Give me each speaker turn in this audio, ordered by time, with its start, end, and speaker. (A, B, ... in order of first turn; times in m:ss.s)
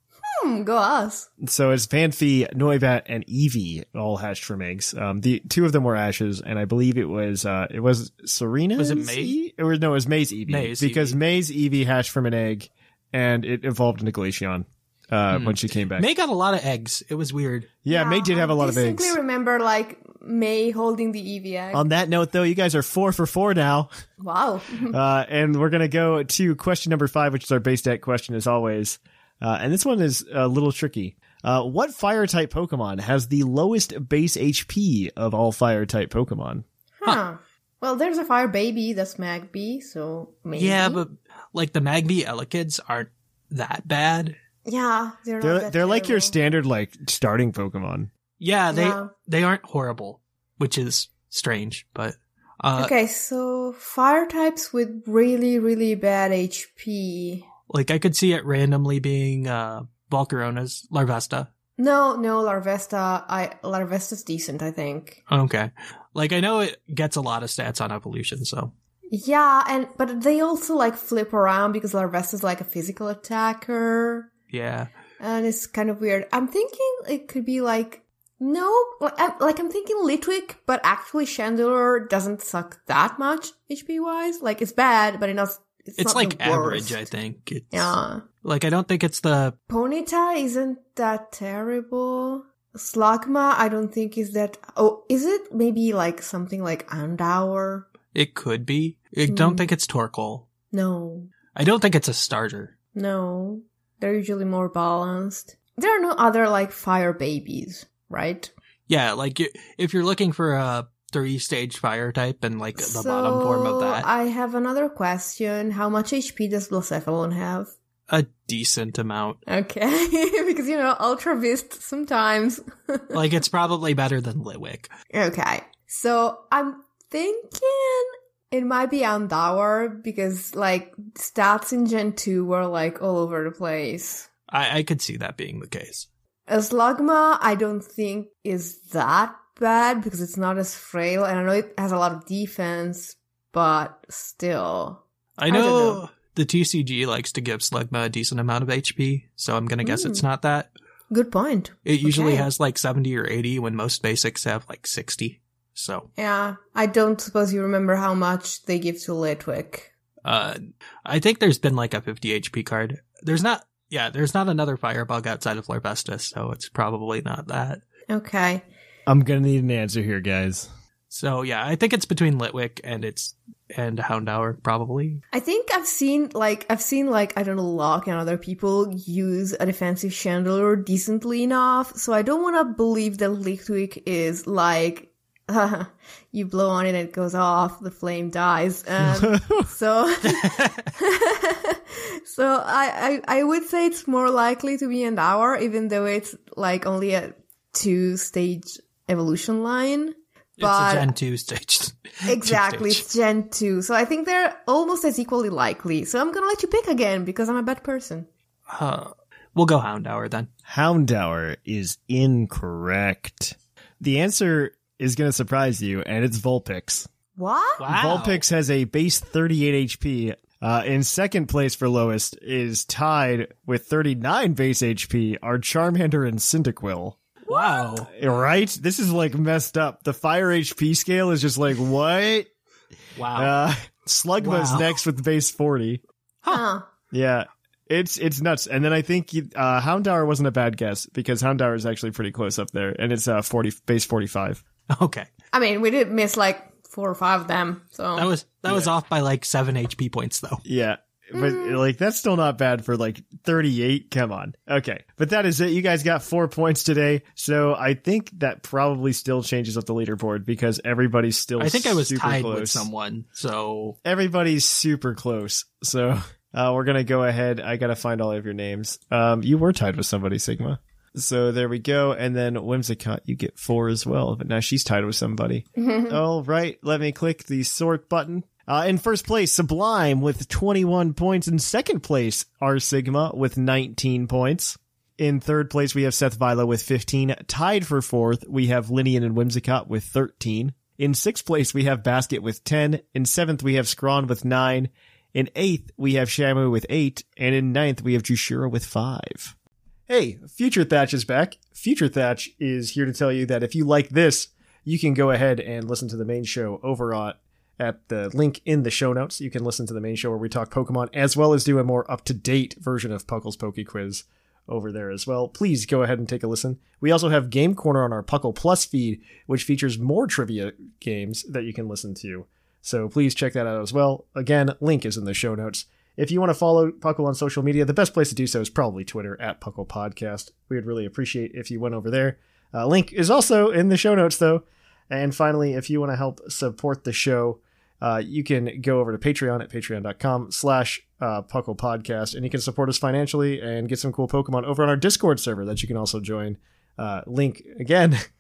0:00.3-0:01.3 A
0:01.4-0:16.1 B
0:08.8-0:09.4 C
0:10.5-0:11.2 C
0:15.3-0:17.8 C
0:17.8-0:19.2 B
0:17.9-0:21.9 A
0:21.7-0:23.9 B
0:24.2-0:25.0 A
0:24.9-0:36.6 B
0:37.0-0:41.0 A
0:40.6-0:44.4 C
0:44.6-0:46.4 A
0:45.4-0:48.1 B
0:48.4-0:52.9 C
0:48.7-0:49.1 A
0:52.8-0:57.5 A
0:57.7-1:01.5 C
1:01.8-1:05.2 A
1:05.3-1:08.7 C
1:09.1-1:14.3 A
1:14.5-1:14.9 C
1:15.2-1:27.1 A
1:26.0-1:29.6 C
1:27.7-1:28.3 A
1:29.7-1:37.9 A
1:38.1-1:40.5 C
1:39.3-1:39.7 A
1:40.7-1:41.3 A
1:41.5-1:42.7 C
1:42.9-1:48.5 A
1:48.9-1:54.1 C
1:52.8-1:57.7 A
1:58.1-1:59.4 C
1:59.5-2:03.2 A
2:03.1-2:04.9 C
2:05.1-2:14.3 A
2:14.5-2:16.1 C
2:16.5-2:26.0 A
2:25.4-2:30.7 C
2:29.8-2:30.3 A
2:31.1-2:32.5 A
2:31.8-2:36.1 C
2:36.2-2:39.9 A
2:40.2-2:47.8 C
2:48.1-2:48.6 A
2:49.1-2:50.7 B
2:51.1-2:55.2 C
2:55.3-3:21.1 A
3:09.0-3:09.7 B
3:10.2-3:10.9 C
3:20.6-3:23.1 C
3:22.3-3:28.3 A
3:28.7-3:30.5 C
3:30.7-3:37.1 B
3:37.4-3:37.8 A
3:37.8-3:38.4 C
3:37.9-3:47.2 B
3:47.5-3:48.0 A
3:47.5-3:48.1 C
3:48.0-3:52.5 B
3:53.2-3:53.6 C
3:53.3-3:56.0 B
3:54.4-3:55.0 C
3:56.5-3:56.9 A
3:57.1-4:04.6 B
4:04.9-4:05.3 C
4:05.5-4:08.3 A
4:08.2-4:10.6 C
4:08.7-4:08.9 B
4:10.6-4:22.9 B
4:11.4-4:11.8 A
4:21.6-4:24.0 C
4:24.0-4:59.5 B
4:35.8-4:36.2 A
5:00.1-5:48.2 B